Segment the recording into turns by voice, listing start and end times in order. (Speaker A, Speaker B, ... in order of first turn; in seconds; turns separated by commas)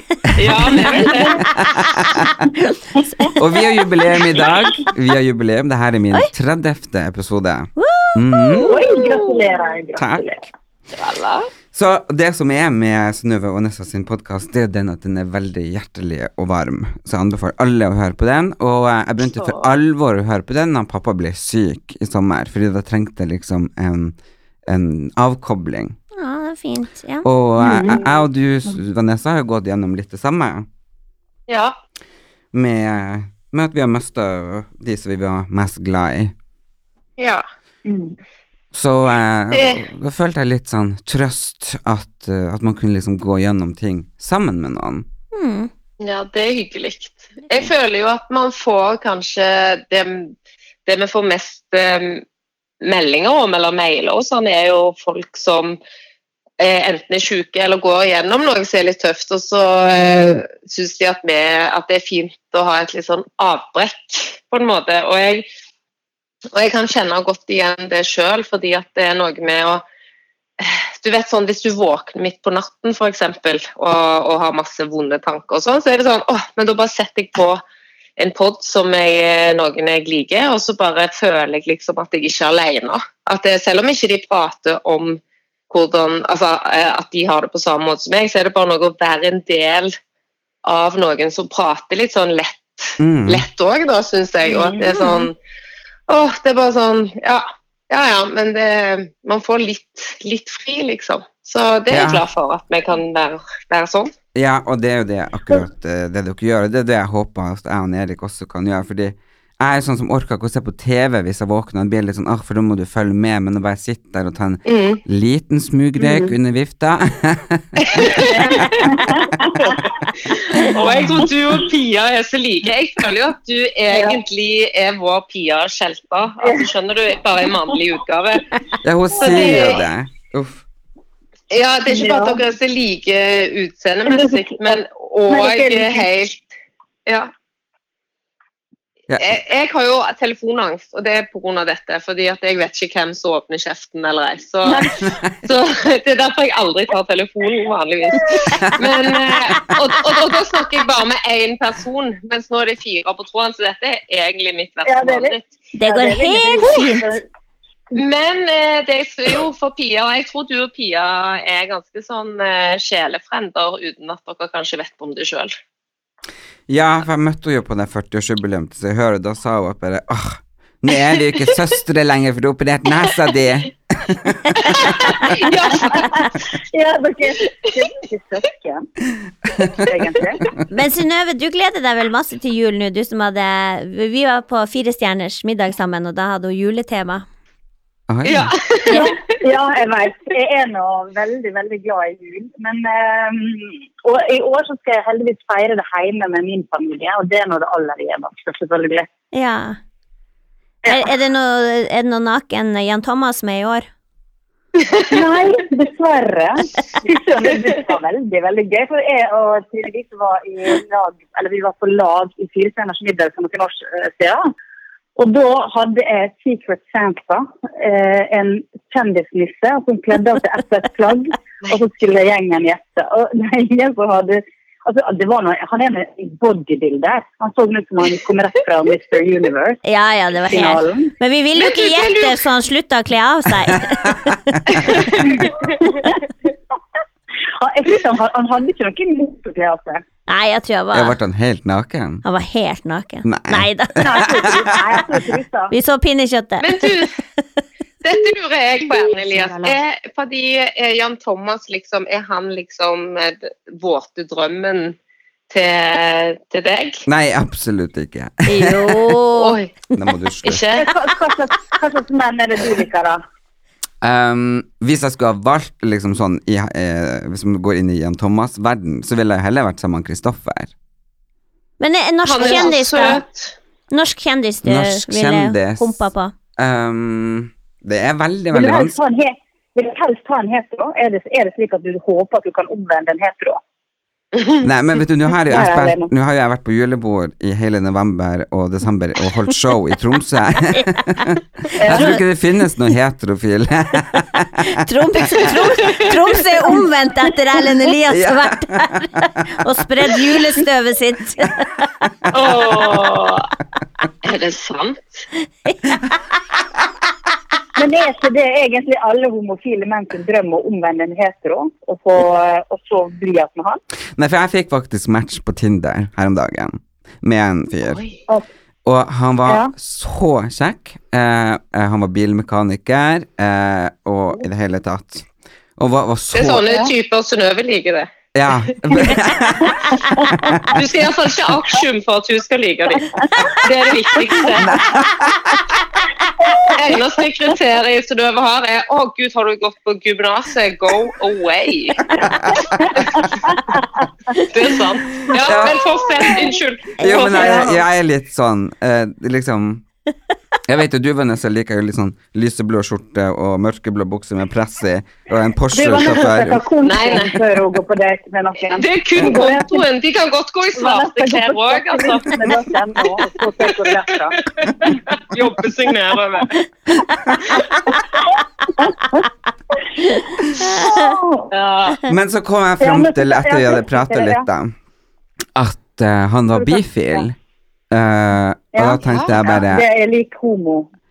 Speaker A: 0.4-1.5, Speaker B: 0.4-2.5, Speaker B: 3.4-8.8, Speaker C: 7.8-8.7, Speaker D: 8.7-10.4, Speaker A: 8.9-9.6, Speaker B: 10.0-10.4, Speaker A: 10.9-11.5, Speaker B: 11.7-24.1, Speaker A: 19.2-19.7, Speaker B: 24.7-26.0, Speaker C: 26.2-27.3, Speaker B: 27.2-30.7, Speaker D: 27.6-28.0, Speaker A: 31.5-31.8, Speaker B: 32.5-36.3, Speaker A: 37.2-37.4, Speaker D: 37.9-38.2, Speaker B: 38.7-45.1, Speaker A: 39.5-39.8, Speaker C: 45.3-45.7, Speaker A: 46.0-50.3, Speaker A: 50.9-52.2, Speaker A: 52.8-55.8, Speaker A: 56.6-65.5, Speaker A: 66.5-69.8, Speaker A: 70.6-77.6, Speaker A: 78.2-90.0, Speaker A: 90.6-95.3, Speaker B: 93.0-93.5, Speaker D: 94.5-94.8, Speaker A: 96.1-104.1, Speaker B: 101.9-102.2, Speaker B: 104.3-118.3, Speaker A: 114.7-115.0, Speaker D: 116.0-116.3, Speaker A: 117.9-118.8, Speaker D: 118.2-119.8, Speaker A: 120.3-128.5, Speaker D: 123.9-124.2, Speaker B: 128.8-130.6, Speaker A: 129.2-129.8, Speaker D: 129.3-129.7, Speaker A: 131.5-136.5, Speaker D: 131.9-132.4, Speaker D: 134.1-136.1, Speaker A: 139.2-155.4, Speaker D: 154.9-157.2, Speaker C: 155.8-157.2, Speaker A: 157.9-165.5, Speaker B: 166.7-174.9, Speaker A: 174.7-176.1, Speaker D: 175.9-178.9, Speaker D: 179.7-180.4, Speaker C: 180.7-187.3, Speaker B: 188.1-188.6, Speaker A: 188.2-189.1, Speaker D: 188.9-199.1, Speaker C: 199.3-199.8, Speaker C: 200.9-203.9, Speaker D: 205.1-214.5, Speaker D: 215.2-229.8, Speaker C: 229.8-235.1, Speaker D: 230.5-231.1, Speaker A: 231.6-232.4, Speaker A: 234.8-235.5, Speaker D: 237.6-240.0, Speaker C: 240.3-241.2, Speaker B: 240.9-242.2, Speaker C: 242.2-244.5, Speaker B: 243.2-244.4, Speaker D: 244.0-245.7, Speaker C: 245.7-246.9, Speaker A: 246.6-247.2, Speaker A: 248.0-255.0, Speaker A: 255.5-257.1, Speaker B: 257.1-259.2, Speaker C: 258.5-259.6, Speaker A: 259.4-259.7, Speaker B: 259.9-260.7, Speaker A: 260.4-260.9, Speaker D: 260.8-263.2, Speaker B: 264.0-270.7, Speaker C: 271.8-273.2, Speaker A: 272.2-273.5, Speaker C: 273.9-276.3, Speaker B: 274.6-276.1, Speaker B: 276.6-279.0, Speaker D: 278.5-283.6, Speaker A: 284.4-284.6, Speaker B: 284.6-294.6, Speaker D: 285.5-286.1, Speaker D: 291.8-292.2, Speaker C: 291.9-292.2, Speaker C: 294.6-301.7, Speaker B: 295.3-295.7, Speaker B: 298.1-299.3, Speaker B: 302.3-302.9, Speaker A: 302.3-303.5, Speaker A: 304.2-305.2, Speaker C: 305.7-306.0, Speaker D: 307.8-313.8, Speaker B: 314.2-318.0, Speaker A: 317.9-318.2, Speaker B: 318.9-326.7, Speaker A: 326.3-328.1, Speaker B: 328.3-330.8, Speaker A: 330.7-335.1, Speaker B: 334.6-335.6, Speaker D: 336.5-336.7, Speaker A: 336.7-342.1, Speaker B: 342.2-342.9, Speaker A: 343.0-343.2, Speaker D: 343.5-343.8, Speaker A: 344.4-347.6, Speaker B: 345.4-345.9, Speaker B: 347.0-349.9, Speaker D: 347.2-347.8, Speaker B: 350.7-356.6, Speaker D: 355.7-359.9, Speaker A: 356.8-357.4, Speaker A: 358.7-362.5, Speaker D: 360.8-364.9, Speaker A: 363.8-366.6, Speaker D: 368.8-369.2, Speaker C: 370.6-371.1, Speaker D: 370.8-371.5, Speaker A: 371.5-372.0, Speaker B: 372.1-374.7, Speaker D: 372.8-374.5, Speaker B: 375.6-377.4, Speaker D: 376.6-377.2, Speaker B: 377.9-379.9, Speaker D: 378.7-380.9, Speaker A: 379.1-379.4